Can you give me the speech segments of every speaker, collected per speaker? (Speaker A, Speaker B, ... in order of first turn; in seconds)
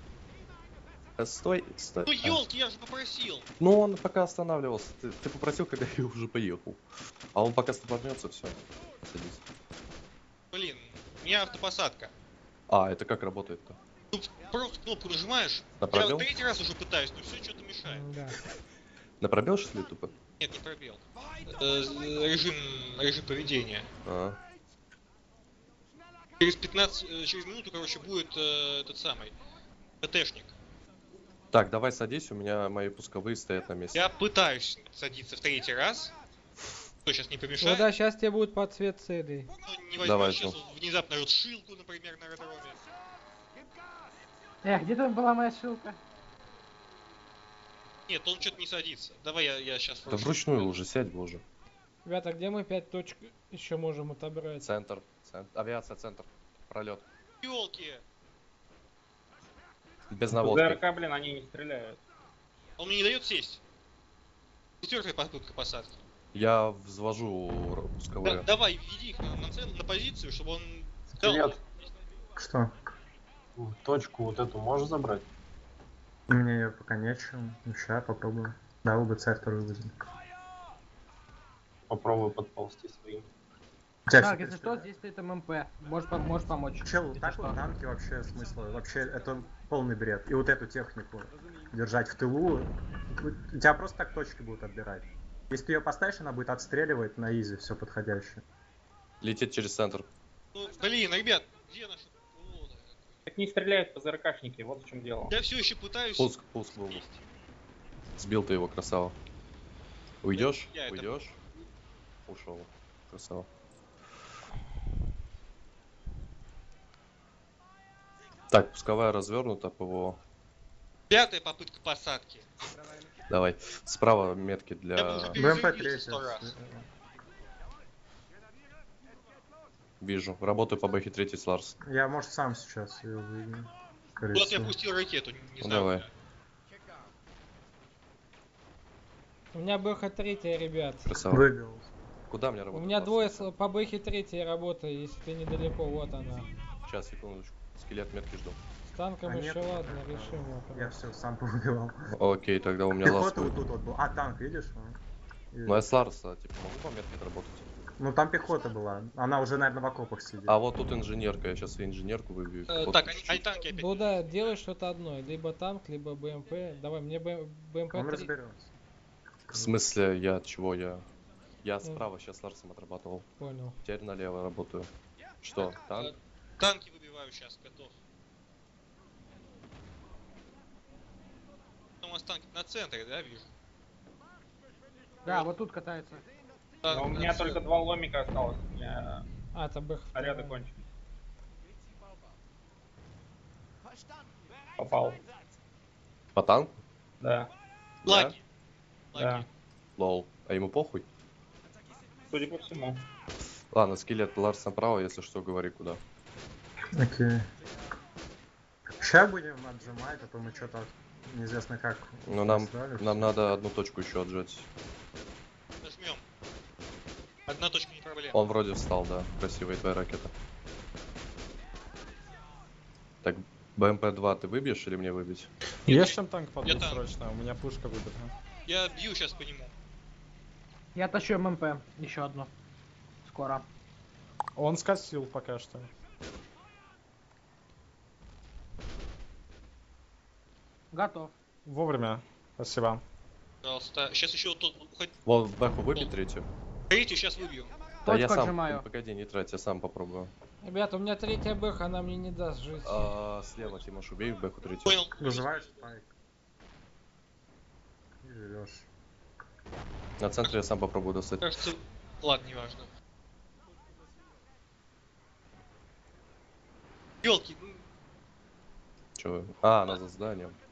Speaker A: 1.2-2.4, 3.6-6.8, 7.3-9.4, 12.7-13.8, 15.8-16.3, 19.2-20.1, 24.1-24.4, 31.5-34.1, 40.0-40.6, 50.1-51.4, 54.6-57.0, 60.1-60.8, 66.3-68.5, 99.2-100.1, 106.2-107.0, 108.2-109.2, 110.2-111.4, 112.3-113.5, 118.5-120.2, 123.3-125.4, 130.0-131.8, 135.6-136.0, 141.0-141.5, 142.3-143.5, 146.8-148.6, 152.1-153.6, 155.7-157.7, 160.5-163.4, 169.5-171.0, 171.6-173.3, 173.8-174.9, 175.4-176.1, 196.3-196.8, 198.0-198.4, 200.0-201.1, 203.7-206.0, 212.3-214.7, 218.3-220.3, 223.2-225.5, 245.3-246.5, 248.1-250.3, 252.8-255.0, 260.2-261.5, 269.2-270.6
Speaker B: 2.1-3.5, 10.5-12.1, 14.1-18.1, 20.4-23.9, 26.4-29.3, 30.0-30.5, 33.9-36.1, 37.0-37.9, 39.5-42.8, 48.1-50.7, 57.4-58.0, 62.8-63.6, 64.8-65.9, 68.2-71.6, 100.5-103.2, 105.3-107.2, 110.3-111.1, 121.1-122.5, 125.0-126.5, 134.3-136.1, 162.7-164.6, 175.7-177.9, 182.0-183.5, 186.8-187.6, 198.1-198.4, 199.1-199.5, 215.8-216.2, 217.5-218.4, 225.9-227.0, 228.7-229.7, 243.6-245.2, 246.9-247.7, 254.8-255.8, 261.4-262.9, 267.2-267.8
Speaker C: 17.9-18.4, 37.6-39.5, 52.0-54.7, 139.5-141.1, 142.7-146.5, 148.8-151.0, 163.7-168.3, 173.4-173.8, 189.5-190.6, 250.6-253.1
Speaker D: 44.6-46.0, 84.2-87.6, 185.3-186.3, 230.9-232.5, 233.2-233.7, 240.9-241.3, 248.1-248.8
Speaker E: 60.3-62.0, 103.3-105.3, 186.9-189.3, 190.1-190.8, 194.8-195.2, 197.2-197.5, 199.2-199.5, 202.3-203.0
Speaker F: 71.1-71.6, 73.6-75.3, 81.9-83.3
Speaker G: 72.4-72.7, 76.3-80.0, 84.1-84.9, 86.8-98.4, 125.3-126.9, 131.8-134.8, 141.3-141.9, 149.2-152.0, 153.0-155.0, 155.5-155.9, 158.0-160.6, 167.9-168.7, 206.9-207.5, 209.0-213.3, 255.2-256.1, 258.2-258.9
Speaker H: 225.9-228.3, 234.6-235.9, 241.7-243.0